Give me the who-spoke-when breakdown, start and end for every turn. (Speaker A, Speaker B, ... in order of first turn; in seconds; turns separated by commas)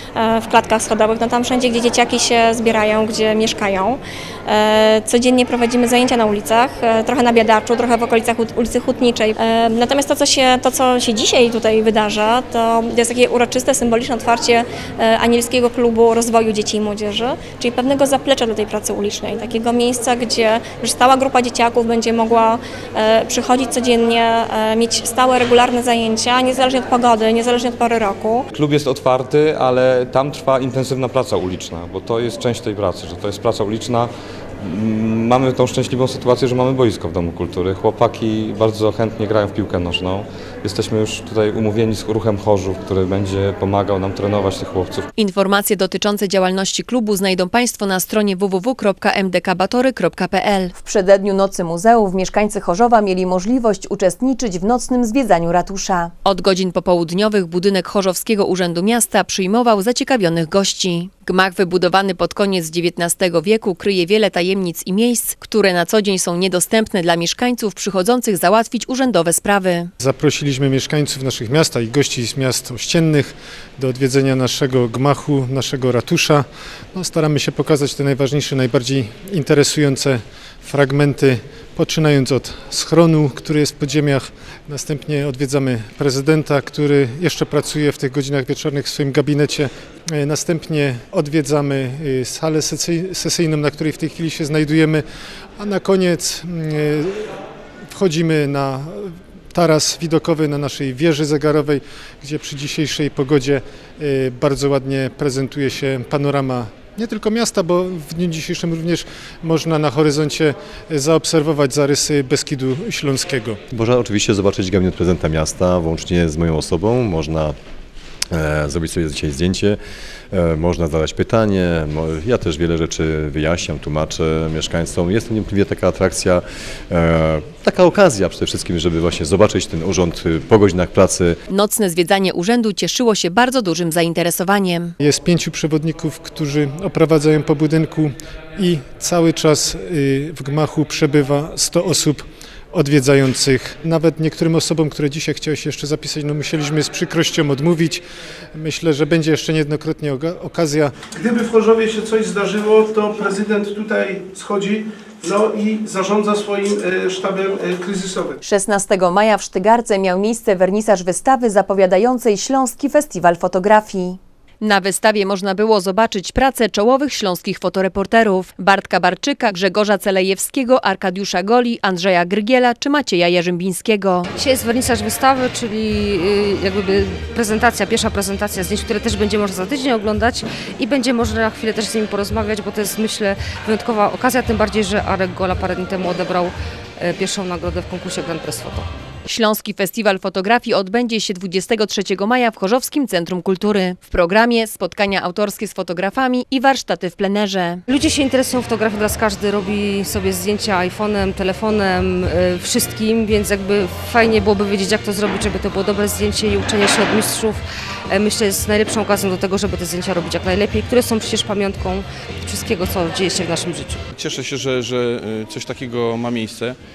Speaker A: 0.1-28.4, Speaker B: 28.5-45.0, Speaker C: 45.2-69.9, Speaker D: 70.0-95.0, Speaker D: 95.6-97.3, Speaker D: 97.9-113.6, Speaker E: 113.7-117.5, Speaker E: 118.3-119.8, Speaker E: 120.3-131.4, Speaker C: 131.5-134.9, Speaker D: 135.0-148.0, Speaker D: 148.6-150.9, Speaker F: 151.2-158.3, Speaker C: 158.4-174.3, Speaker G: 174.4-188.9, Speaker C: 189.3-197.8, Speaker G: 197.9-214.0, Speaker H: 214.1-216.8